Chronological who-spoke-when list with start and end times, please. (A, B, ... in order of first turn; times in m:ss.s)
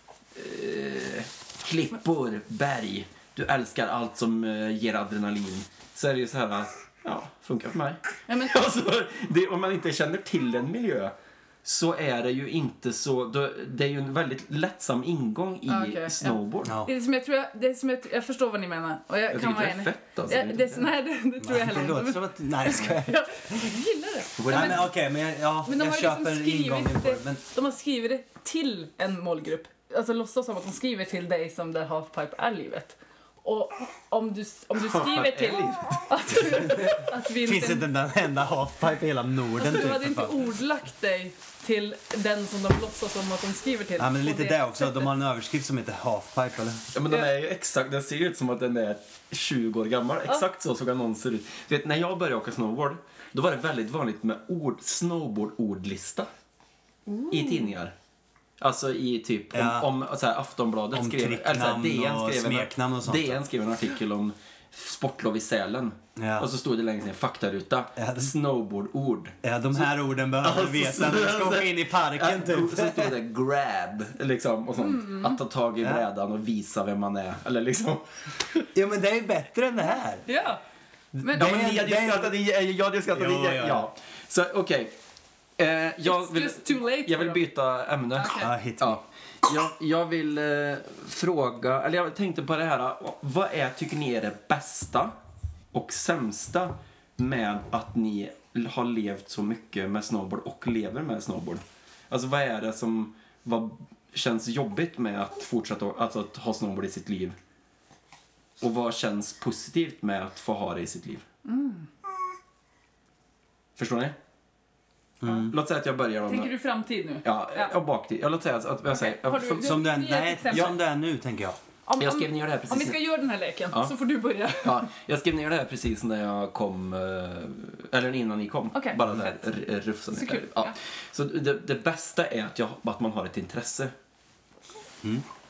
0:00.3-0:16.8 A
0:08.3-0:08.6 B
0:15.7-0:24.8 B
0:16.6-0:16.9 C
0:19.3-0:20.8 A
0:21.4-0:23.2 C
0:24.4-0:24.9 A
0:24.5-0:27.4 C
0:25.6-0:37.9 B
0:34.9-0:36.1 A
0:37.4-0:40.4 C
0:39.6-0:45.1 B
0:44.0-0:46.8 C
0:46.9-0:56.3 A
0:57.1-0:57.7 B
0:57.3-0:57.9 A
0:58.6-1:18.7 A
0:59.5-0:59.9 C
1:00.9-1:03.4 C
1:06.2-1:06.5 C
1:08.0-1:08.3 C
1:09.4-1:13.2 C
1:14.8-1:15.4 B
1:18.7-1:20.2 C
1:20.2-1:20.6 B
1:21.2-1:21.7 B
1:21.2-1:24.9 A
1:21.2-1:22.4 C
1:23.1-1:23.9 C
1:25.6-1:35.1 A
1:26.0-1:27.4 B
1:28.1-1:28.5 B
1:28.4-1:29.0 C
1:35.7-1:47.4 A
1:48.6-1:51.2 A
1:51.4-1:51.9 B
1:53.8-1:54.1 A
1:55.2-1:55.5 C
1:55.4-1:56.5 A
1:56.2-1:57.7 B
1:57.2-1:59.8 A
1:58.9-2:00.7 B
1:59.6-2:01.6 C
2:01.9-2:04.9 B
2:02.0-2:03.0 A
2:04.6-2:13.9 A
2:08.7-2:09.2 B
2:10.1-2:10.7 B